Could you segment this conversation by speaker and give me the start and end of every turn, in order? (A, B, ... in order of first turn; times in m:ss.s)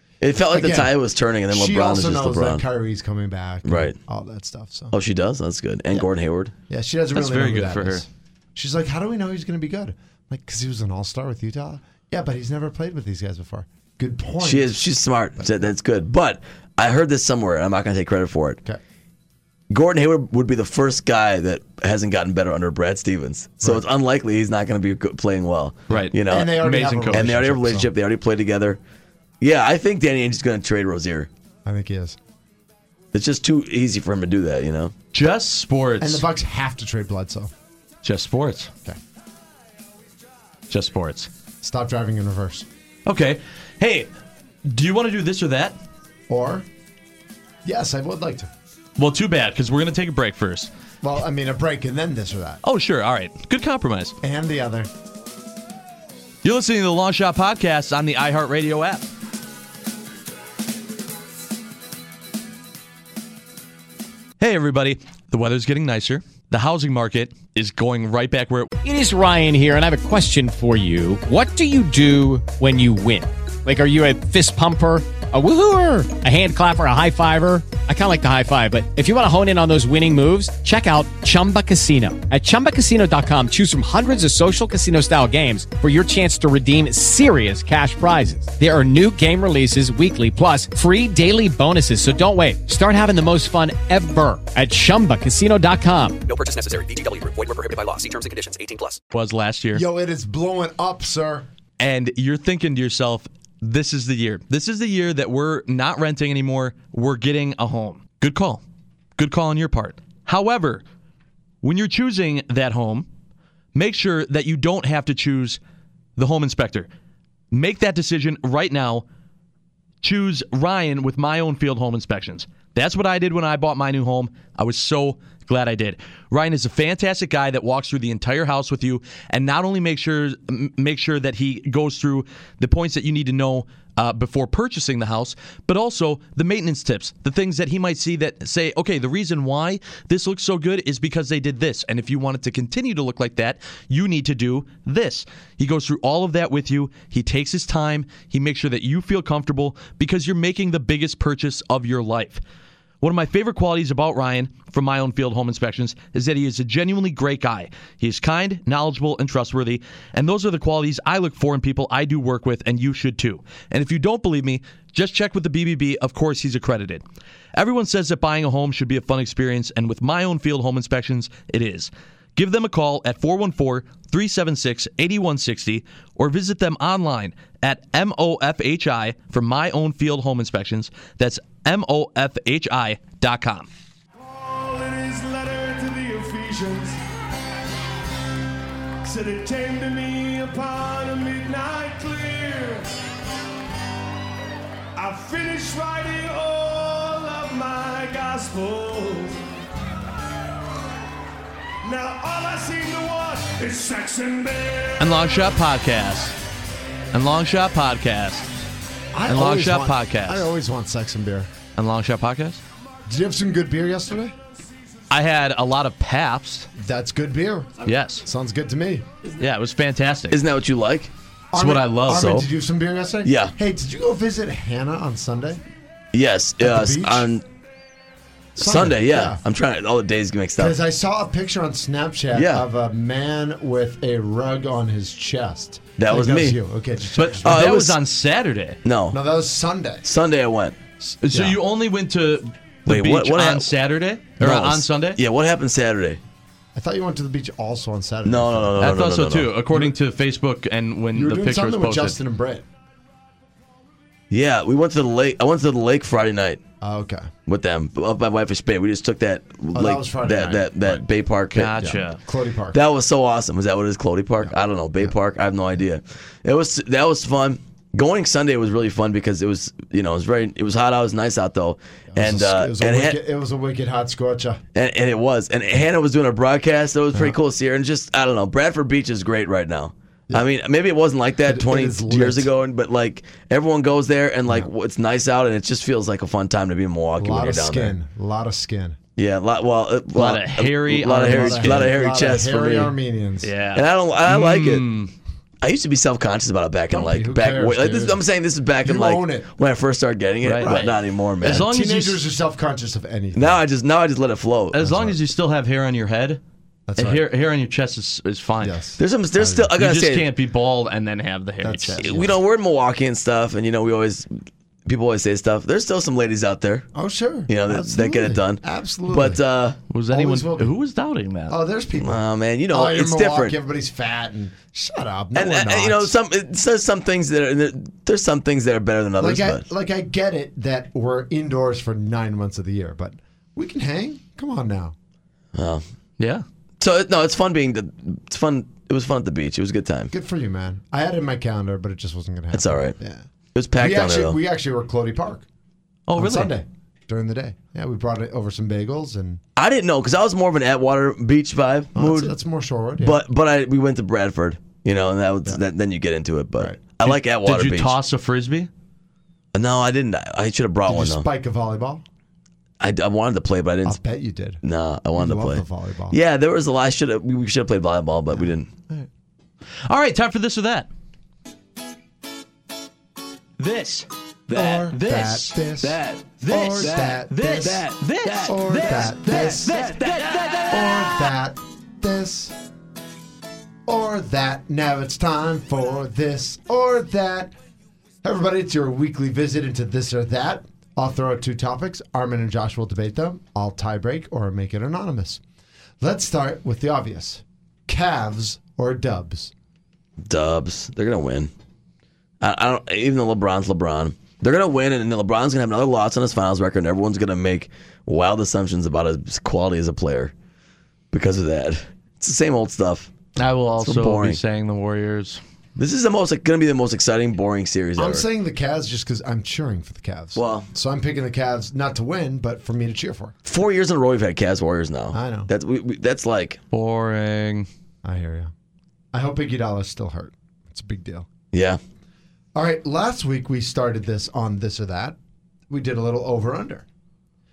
0:00.2-0:02.6 A
0:00.5-0:00.9 B
0:01.5-0:04.9 B
0:03.6-0:04.0 A
0:04.9-0:06.5 A
0:06.7-0:14.7 B
0:07.1-0:08.0 C
0:14.4-0:18.6 A
0:19.7-0:28.8 A
0:25.9-0:27.3 C
0:26.2-0:27.9 B
0:29.4-0:31.3 A
0:31.6-0:32.2 B
0:33.1-0:34.9 A
0:35.1-0:36.2 C
0:36.0-0:37.5 B
0:38.0-0:38.7 C
0:40.7-0:41.3 C
0:41.6-0:42.7 B
0:43.0-0:44.1 C
0:44.6-0:45.8 C
0:46.3-0:46.7 B
0:47.6-0:48.5 B
0:49.0-0:50.7 C
0:51.0-0:52.6 B
0:52.6-0:54.1 C
0:54.2-0:54.9 B
0:56.4-0:59.0 C
1:04.4-1:08.7 C
1:08.8-1:36.2 D
1:36.2-1:39.0 E
1:39.1-1:39.8 C
1:39.7-1:41.5 B
1:41.8-1:48.6 C
1:49.2-1:50.8 C
1:51.6-1:53.1 C
1:53.7-1:55.6 C
1:56.2-1:56.9 C
1:57.5-1:59.0 C
2:00.0-2:32.4 C
2:33.0-2:47.0 C
2:47.5-3:03.7 C
3:04.2-3:07.0 F
3:09.0-3:12.9 F
3:15.0-3:19.4 F
3:21.8-3:25.2 F
3:25.0-3:26.4 C
3:27.1-3:28.5 C
3:29.1-3:31.5 B
3:29.3-3:30.5 C
3:31.8-3:32.6 C
3:33.1-3:34.3 B
3:35.1-3:36.7 C
3:36.7-3:39.0 B
3:37.8-3:38.2 C
3:39.4-3:40.4 C
3:40.3-3:41.1 A
3:41.5-3:45.6 B
3:41.5-3:42.4 C
3:42.1-3:42.5 A
3:43.2-3:43.5 A
3:46.1-3:47.4 A
3:46.6-3:47.3 B
3:48.6-3:49.4 B
3:48.6-3:50.8 A
3:50.6-3:57.6 B
3:52.3-3:52.6 A
3:56.0-3:56.6 A
3:57.2-3:58.8 C
3:57.4-3:58.0 A
3:58.8-3:59.2 A
3:59.1-4:00.0 B
4:00.0-4:00.8 A
4:01.0-4:05.2 C
4:01.3-4:01.6 B
4:02.9-4:03.7 A
4:04.4-4:06.2 A
4:06.7-4:09.0 B
4:08.2-4:09.5 A
4:08.8-4:12.2 C
4:11.1-4:12.6 B
4:14.3-4:16.6 A
4:16.8-4:17.3 B
4:17.5-4:21.9 A
4:19.7-4:21.0 B
4:21.5-4:22.2 C
4:21.8-4:22.8 B
4:22.7-4:33.2 A
4:24.4-4:25.1 B
4:32.1-4:34.6 B
4:34.7-4:48.0 A
4:41.4-4:42.5 B
4:47.2-4:49.0 B
4:49.2-4:52.9 A
4:50.1-4:51.9 C
4:51.0-4:53.5 B
4:53.4-4:55.1 C
4:53.7-4:54.8 A
4:55.6-5:01.6 A
4:56.9-4:58.2 B
4:58.8-4:59.5 B
5:00.4-5:00.9 C
5:00.6-5:03.6 B
5:01.4-5:02.2 C
5:03.3-5:04.8 A
5:04.7-5:06.4 C
5:04.8-5:05.2 B
5:06.9-5:07.3 B
5:07.0-5:08.7 C
5:08.6-5:09.7 B
5:09.0-5:10.3 A
5:09.8-5:12.2 C
5:11.6-5:12.4 B
5:12.0-5:14.3 A
5:14.8-5:16.9 A
5:16.9-5:19.4 B
5:17.5-5:19.8 A
5:19.9-5:21.6 C
5:20.1-5:20.8 B
5:21.5-5:26.1 B
5:22.0-5:23.6 A
5:25.3-5:29.6 A
5:29.2-5:34.9 B
5:35.5-5:35.8 A
5:36.2-5:36.4 C
5:36.8-5:40.1 A
5:40.1-5:43.2 B
5:42.5-5:43.0 A
5:43.5-5:44.4 A
5:43.8-5:45.4 B
5:46.1-5:46.5 C
5:46.2-5:49.4 B
5:49.6-5:52.3 A
5:51.9-5:53.2 B
5:53.0-5:58.0 A
5:57.0-5:58.7 C
5:59.5-6:01.2 A
6:00.9-6:02.0 B
6:02.8-6:04.0 A
6:03.8-6:04.6 B
6:04.6-6:08.7 A
6:05.1-6:06.2 B
6:08.4-6:09.1 B
6:09.9-6:10.9 C
6:13.6-6:20.9 C
6:14.5-6:20.0 B
6:20.7-6:22.6 B
6:23.8-6:27.5 B
6:28.2-6:35.4 B
6:36.0-6:39.5 B
6:40.2-6:41.5 A
6:42.4-6:50.3 A
6:51.1-6:53.1 A
6:53.4-6:55.4 C
6:53.8-6:54.4 A
6:55.8-6:58.2 A
6:58.0-7:03.3 B
7:00.4-7:00.7 A
7:03.4-7:06.6 A
7:05.1-7:05.5 B
7:06.7-7:07.7 C
7:08.0-7:08.5 B
7:09.1-7:11.3 B
7:11.5-7:11.8 A
7:12.5-7:15.2 B
7:15.7-7:16.8 B